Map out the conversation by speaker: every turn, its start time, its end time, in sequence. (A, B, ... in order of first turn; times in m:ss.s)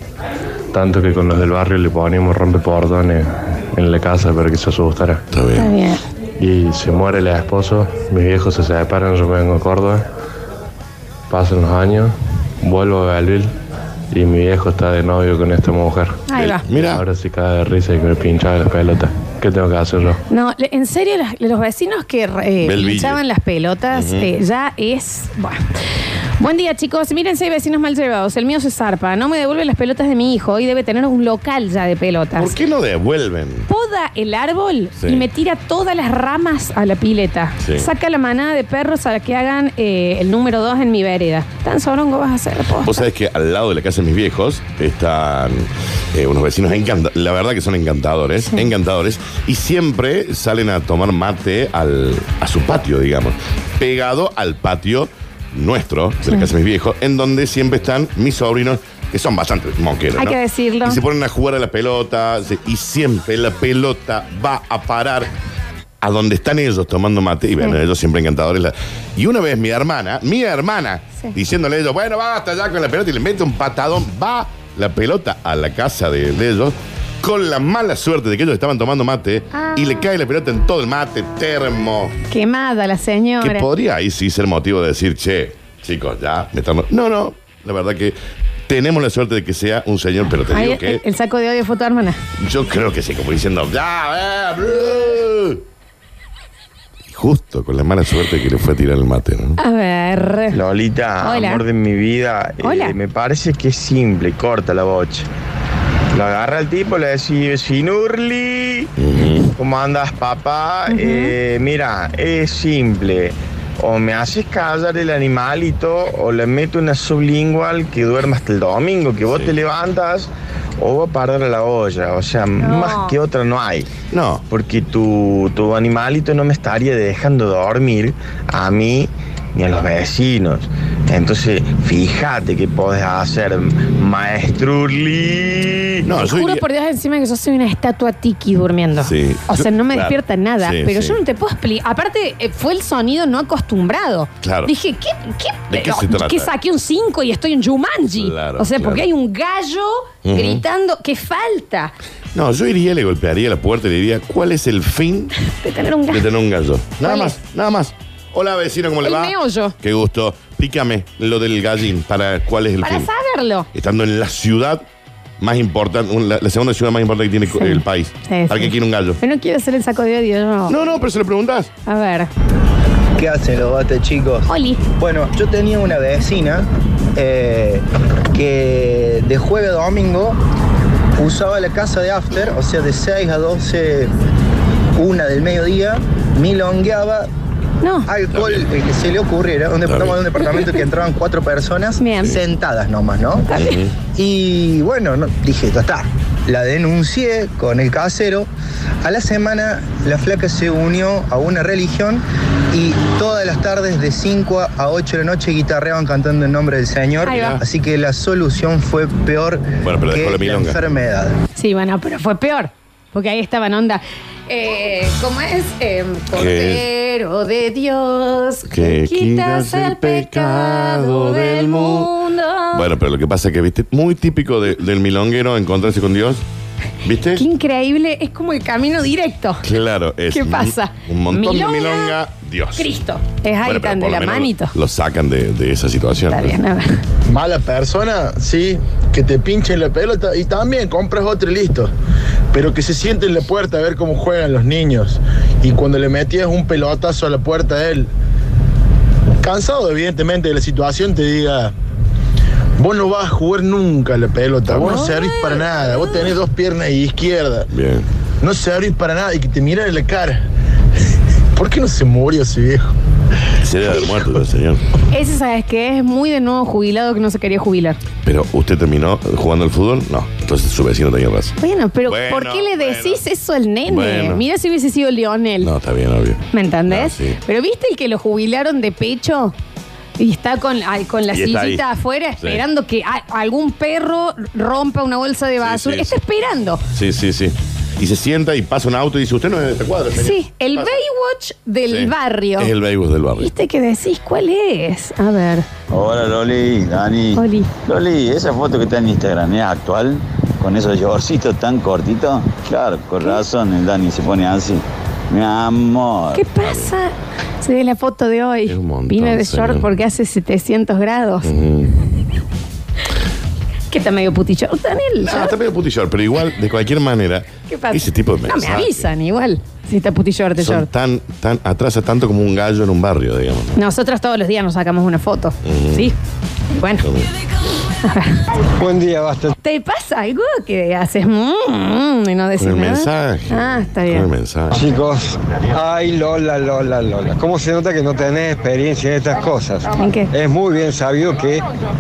0:00.7-0:05.2 A
0:05.3-0:05.7 B
0:05.5-0:06.0 C
0:06.4-0:10.0 A
0:11.3-0:13.5 A
0:14.1-0:20.2 A
0:16.3-0:16.6 C
0:16.3-0:17.0 B
0:20.3-0:25.6 C
0:22.6-0:23.2 B
0:23.9-0:24.3 B
0:26.4-0:32.6 C
0:32.4-0:33.6 B
0:33.7-0:43.0 C
0:35.0-0:35.3 B
0:37.6-0:37.9 B
0:42.8-1:05.3 B
1:00.2-1:01.0 C
1:06.0-1:22.1 B
1:19.5-1:20.0 C
1:22.3-1:23.7 C
1:23.4-1:28.2 B
1:28.7-1:31.0 B
1:30.4-1:32.2 C
1:32.4-1:35.6 B
1:37.1-1:39.6 B
1:39.6-1:40.6 C
1:40.5-1:45.3 D
1:41.2-1:41.6 C
1:42.6-1:42.9 C
1:46.1-1:48.9 D
1:49.0-1:49.5 B
1:49.5-2:03.9 D
1:50.9-1:51.3 C
2:02.6-2:03.2 C
2:04.1-2:04.4 B
2:04.5-2:16.0 D
2:16.0-2:16.6 B
2:16.2-2:31.9 C
2:19.0-2:21.2 B
2:24.4-2:24.7 B
2:25.7-2:26.5 B
2:28.1-2:29.1 B
2:30.2-2:30.6 B
2:32.3-2:35.3 B
2:35.4-2:36.3 C
2:36.1-2:43.1 B
2:37.0-2:37.3 C
2:39.0-2:39.7 C
2:42.8-2:43.7 C
2:43.7-2:44.8 B
2:45.4-2:49.2 B
2:47.5-2:50.8 C
2:50.7-2:51.7 B
2:51.8-2:52.3 C
2:53.2-3:00.4 E
2:54.5-2:54.8 C
3:01.2-3:04.1 E
3:04.9-3:07.3 E
3:07.8-3:08.1 C
3:08.0-3:13.5 E
3:08.3-3:08.6 B
3:09.8-3:10.2 B
3:12.0-3:12.4 C
3:13.5-3:13.8 C
3:13.5-3:13.9 B
3:14.1-3:18.5 E
3:19.0-3:31.4 E
3:27.2-3:27.6 C
3:27.3-3:27.6 B
3:29.8-3:30.8 B
3:31.5-3:42.9 C
3:36.3-3:36.9 B
3:38.7-3:42.1 B
3:42.7-3:46.4 B
3:47.0-3:47.4 B
3:47.3-3:49.6 C
3:49.6-3:52.9 B
3:50.3-3:52.2 C
3:52.7-3:54.7 C
3:53.6-3:56.6 B
3:56.3-3:57.0 C
3:57.3-4:01.9 F
4:02.5-4:08.1 F
4:09.4-4:11.7 F
4:12.8-4:17.7 F
4:14.7-4:15.0 B
4:14.8-4:16.3 C
4:17.7-4:18.0 B
4:18.4-4:20.4 F
4:21.6-4:22.9 F
4:23.6-4:24.8 B
4:25.1-4:28.0 C
4:28.2-4:33.2 B
4:31.6-4:35.7 C
4:33.8-4:34.4 B
4:35.6-4:37.4 B
4:36.5-4:39.5 C
4:40.2-4:46.8 C
4:41.3-4:41.8 B
4:45.6-4:46.1 B
4:46.9-4:51.0 B
4:50.1-4:52.7 C
4:51.9-4:53.5 B
4:53.4-4:55.7 C
4:55.9-5:06.4 G
4:57.3-4:57.7 C
5:06.3-5:11.5 C
5:06.6-5:06.9 B
5:08.7-5:09.9 B
5:11.4-5:12.0 B
5:13.9-5:15.6 C
5:15.2-5:19.1 B
5:17.7-5:20.9 C
5:20.6-5:23.8 B
5:23.7-5:26.1 C
5:25.6-5:26.1 B
5:26.7-5:27.0 C
5:27.0-5:27.3 B
5:28.0-5:28.4 C
5:28.8-5:29.5 H
5:29.6-5:34.3 C
5:32.6-5:34.8 B
5:34.7-5:41.6 H
5:39.9-5:40.3 C